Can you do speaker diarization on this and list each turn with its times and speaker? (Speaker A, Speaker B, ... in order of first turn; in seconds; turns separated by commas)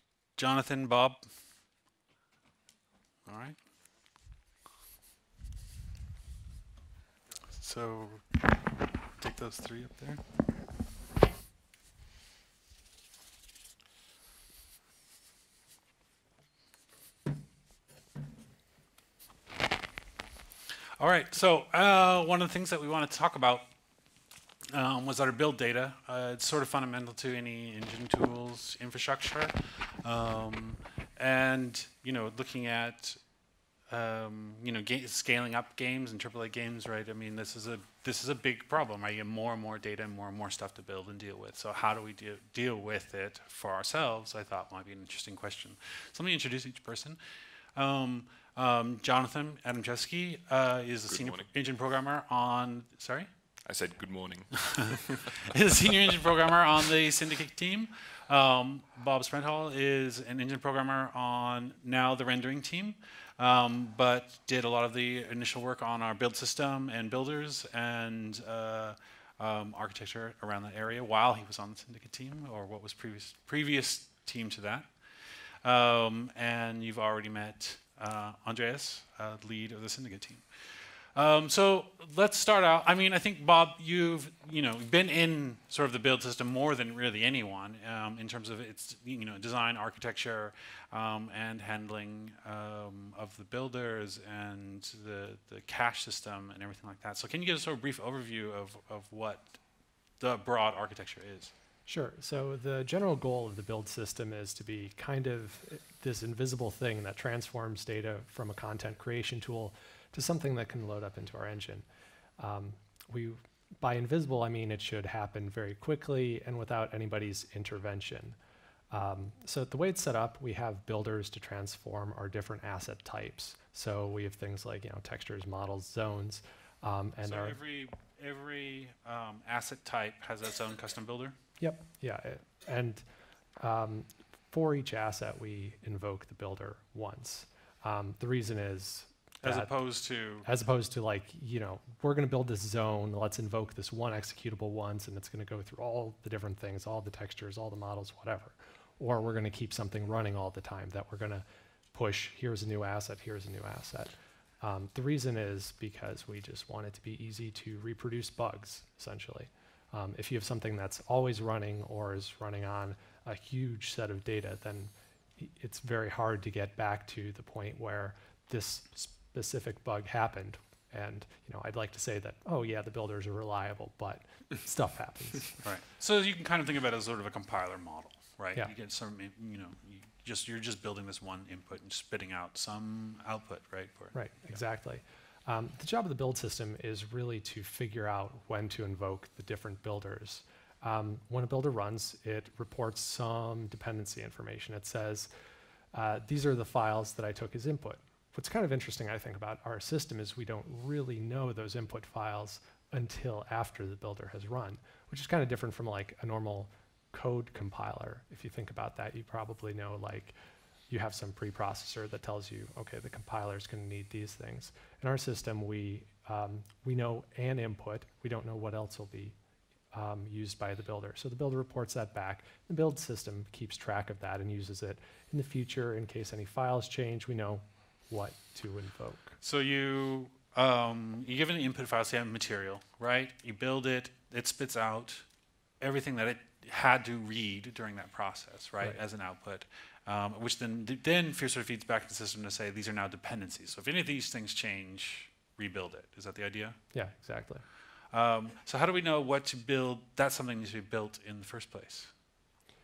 Speaker A: 0.4-1.3, Speaker A: 3.3-3.6, Speaker A: 7.5-10.2, Speaker A: 21.0-23.7, Speaker A: 24.7-33.2, Speaker A: 33.9-47.2, Speaker A: 47.7-53.3, Speaker B: 51.1-51.5, Speaker B: 53.7-55.4, Speaker A: 54.7-99.6, Speaker A: 100.2-101.5, Speaker C: 101.9-111.9, Speaker C: 112.4-118.4, Speaker C: 118.9-127.6, Speaker A: 127.2-131.4, Speaker C: 131.6-133.1, Speaker C: 133.6-139.7, Speaker A: 139.4-140.5, Speaker C: 140.4-175.6, Speaker A: 175.6-184.6, Speaker C: 184.1-195.3, Speaker C: 195.9-210.3, Speaker C: 210.9-219.4, Speaker C: 219.9-229.4, Speaker A: 229.4-235.3, Speaker A: 235.8-246.8, Speaker C: 246.9-247.7, Speaker A: 248.1-252.1